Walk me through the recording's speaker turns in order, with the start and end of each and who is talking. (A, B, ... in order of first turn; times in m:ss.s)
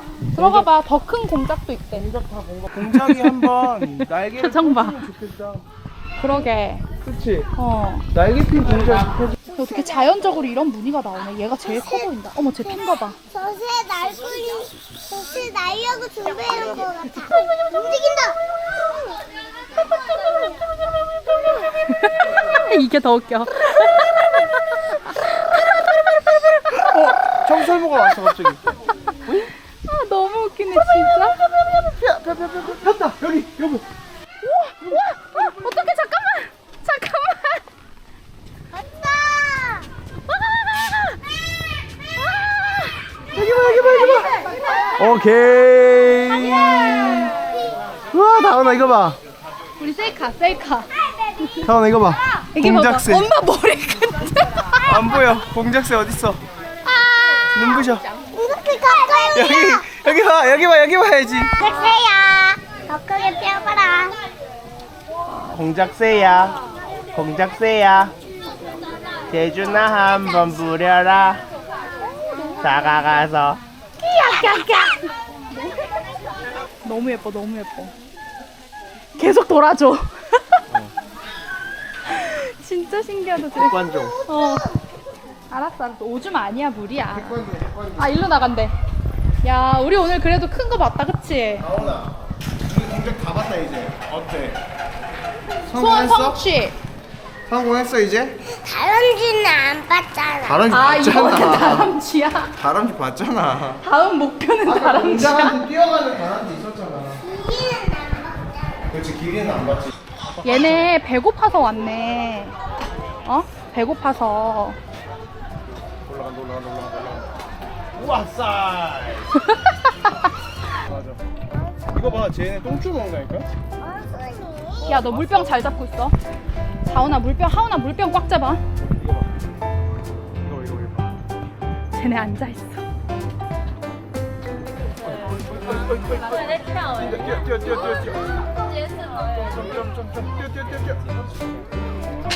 0:00.3-0:02.1 A
0:00.3-0:00.7 B
0:01.9-0:05.6 B
0:02.7-0:05.0 A
0:06.2-0:06.8 A
0:07.0-0:07.5 B
0:07.6-0:08.1 A
0:08.1-0:09.3 B
0:09.5-0:10.3 C
0:09.5-0:13.2 A
0:11.6-0:18.4 C
0:20.0-0:20.6 C
0:21.9-0:26.9 A
0:26.7-0:28.6 B
0:29.2-0:29.5 B
0:29.8-0:31.4 A
0:31.8-0:33.8 B
0:34.4-0:37.6 A
0:38.7-0:39.9 C
0:40.4-0:41.0 A
0:42.3-0:43.0 A
0:43.3-0:44.3 B
0:44.0-0:44.2 A
0:44.1-0:44.8 C
0:44.9-0:47.4 B
0:48.1-0:49.2 B
0:49.8-0:50.9 A
0:51.6-0:53.3 B
0:52.5-0:54.9 A
0:54.8-0:56.4 B
0:56.9-0:57.5 C
0:57.5-0:58.0 B
0:58.3-0:59.9 C
0:59.3-1:01.6 B
1:01.6-1:04.2 C
1:05.4-1:06.6 B
1:07.1-1:08.1 B
1:09.3-1:11.4 B
1:12.6-1:13.6 B
1:14.0-1:15.1 A
1:16.8-1:17.9 A
1:19.2-1:20.4 A
1:22.0-1:23.8 A
1:23.5-1:24.2 B
1:24.0-1:24.7 C
1:24.3-1:24.7 A
1:25.5-1:27.4 A
1:27.1-1:28.2 B
1:28.0-1:28.7 A
1:29.4-1:31.7 A
1:31.6-1:34.6 B
1:35.6-1:36.4 B
1:35.7-1:36.8 A
1:37.5-1:38.4 B
1:38.4-1:40.6 C
1:40.4-1:41.9 B
1:40.7-1:42.5 A
1:42.5-1:43.8 B
1:43.8-1:45.6 A
1:44.6-1:47.2 B
1:47.2-1:48.8 C
1:48.9-1:50.9 B
1:50.4-1:52.6 A
1:53.2-1:54.8 A
1:55.9-1:57.3 B
1:57.9-1:59.4 B
2:00.7-2:01.2 B
2:01.9-2:03.5 B
2:03.8-2:05.3 C
2:04.8-2:06.1 A
2:06.9-2:08.6 A
2:08.8-2:09.3 B
2:10.4-2:11.2 B
2:11.9-2:12.8 A
2:15.0-2:18.4 B
2:19.3-2:21.2 B